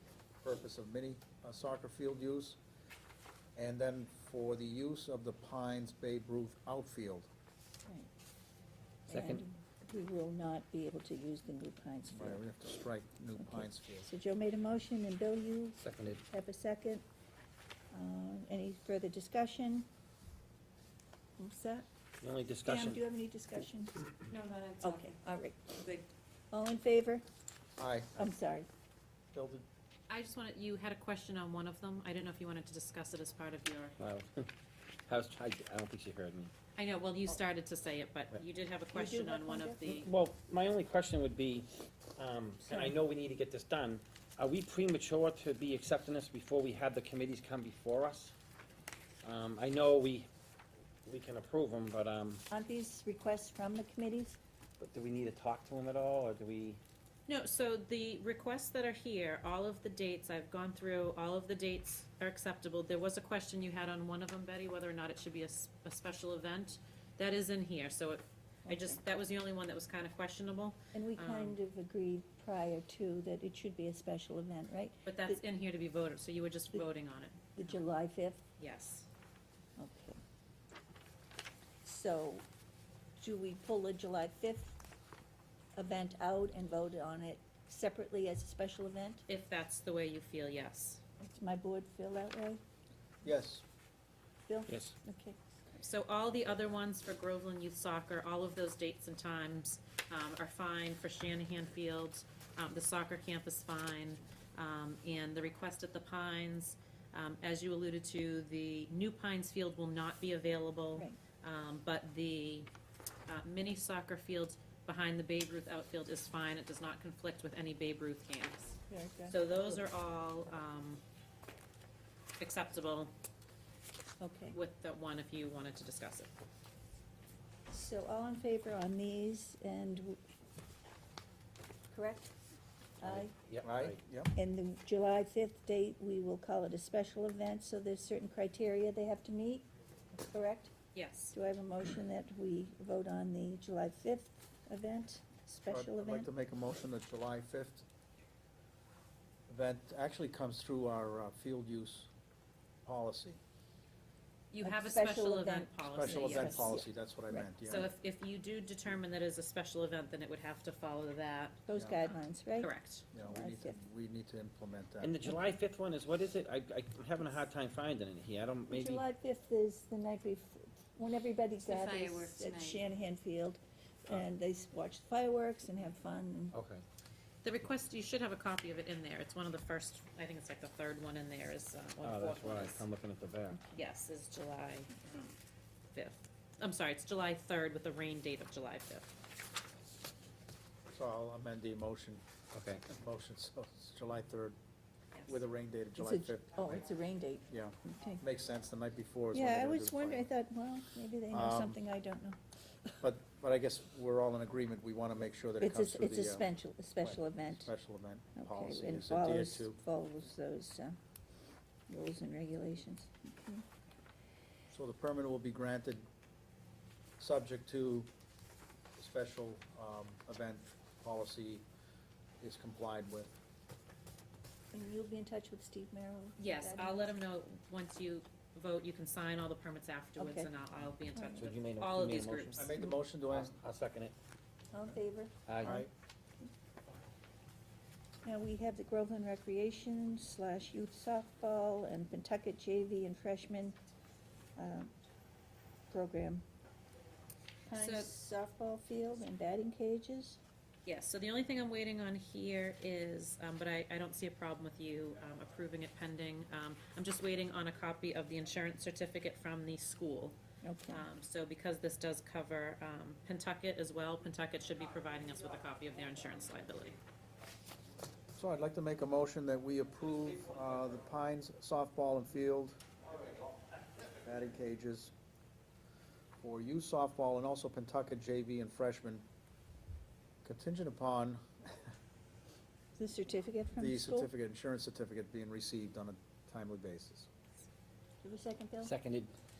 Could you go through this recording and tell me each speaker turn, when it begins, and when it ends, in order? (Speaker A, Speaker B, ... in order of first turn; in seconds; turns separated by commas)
Speaker A: 0.4-2.6, Speaker A: 3.5-7.3, Speaker B: 9.1-12.4, Speaker C: 9.1-9.4, Speaker A: 12.1-14.1, Speaker B: 13.3-17.0, Speaker C: 15.8-16.2, Speaker B: 17.9-19.9, Speaker B: 21.4-21.9, Speaker C: 22.2-23.0, Speaker B: 22.6-24.1, Speaker D: 24.3-25.2, Speaker B: 24.8-25.8, Speaker D: 25.8-26.1, Speaker B: 26.5-27.2, Speaker A: 27.8-28.3, Speaker B: 28.2-28.7, Speaker A: 29.3-29.6, Speaker E: 30.1-34.0, Speaker C: 34.0-34.5, Speaker C: 35.1-36.5, Speaker E: 36.8-40.1, Speaker B: 38.9-39.8, Speaker C: 39.8-48.3, Speaker B: 42.7-42.9, Speaker C: 49.2-50.3, Speaker C: 51.0-52.4, Speaker B: 52.5-54.4, Speaker C: 54.8-56.8, Speaker E: 57.3-71.6, Speaker B: 68.7-69.0, Speaker B: 70.9-75.4, Speaker E: 75.1-77.8, Speaker B: 77.6-78.4, Speaker E: 78.6-79.1, Speaker B: 79.8-80.2, Speaker B: 81.8-82.5, Speaker B: 83.2-84.8, Speaker B: 85.8-89.2, Speaker E: 89.3-91.0, Speaker B: 91.2-92.6, Speaker A: 93.2-93.6, Speaker B: 94.5-95.4, Speaker C: 94.7-94.9, Speaker E: 95.8-112.7, Speaker E: 113.3-121.0, Speaker B: 118.9-119.8, Speaker E: 122.4-123.1, Speaker B: 124.2-124.6, Speaker E: 124.5-126.3, Speaker B: 127.7-130.2, Speaker B: 131.9-132.3, Speaker B: 133.0-133.3, Speaker C: 133.0-134.0, Speaker A: 133.6-134.3, Speaker B: 134.3-139.7, Speaker B: 140.2-140.7, Speaker E: 140.9-141.3, Speaker B: 141.3-146.3, Speaker A: 145.7-147.8, Speaker A: 149.5-152.1, Speaker A: 152.8-153.4, Speaker E: 154.5-156.8, Speaker B: 154.6-157.5, Speaker A: 155.8-157.9, Speaker E: 157.7-163.1, Speaker B: 161.7-163.8, Speaker A: 161.7-162.0, Speaker A: 163.1-165.1, Speaker C: 165.0-169.0, Speaker B: 168.7-176.6, Speaker D: 171.6-172.8, Speaker C: 176.5-176.8, Speaker E: 177.4-182.9, Speaker C: 182.0-183.6, Speaker E: 183.7-185.3, Speaker E: 185.9-189.1, Speaker A: 190.9-192.2, Speaker C: 192.5-192.8, Speaker A: 192.8-194.6, Speaker E: 195.1-195.4, Speaker A: 195.3-196.8, Speaker B: 196.0-198.2, Speaker A: 197.5-200.3, Speaker B: 199.3-203.0, Speaker A: 201.3-201.8, Speaker A: 203.0-206.5, Speaker B: 205.6-207.7, Speaker A: 207.0-209.8, Speaker B: 208.3-211.0, Speaker B: 211.9-213.6, Speaker A: 214.7-216.1, Speaker A: 217.2-218.1, Speaker A: 219.0-221.6, Speaker A: 222.4-223.3, Speaker B: 224.7-227.1, Speaker E: 226.4-232.7, Speaker B: 230.2-230.5, Speaker B: 231.1-231.4, Speaker C: 231.4-232.7, Speaker A: 232.6-233.5, Speaker C: 233.3-234.1, Speaker B: 234.7-235.9, Speaker C: 235.5-235.8, Speaker A: 235.6-235.9, Speaker B: 238.2-243.8, Speaker B: 244.6-244.9, Speaker B: 245.9-246.4, Speaker B: 247.7-250.4, Speaker E: 247.7-248.1, Speaker E: 250.8-260.4, Speaker B: 260.6-261.1, Speaker E: 260.9-267.0, Speaker A: 268.4-272.8, Speaker A: 274.2-275.1, Speaker A: 276.4-279.2, Speaker A: 280.4-281.4, Speaker B: 283.0-284.3, Speaker A: 283.8-287.3, Speaker B: 288.2-288.9, Speaker C: 288.8-289.3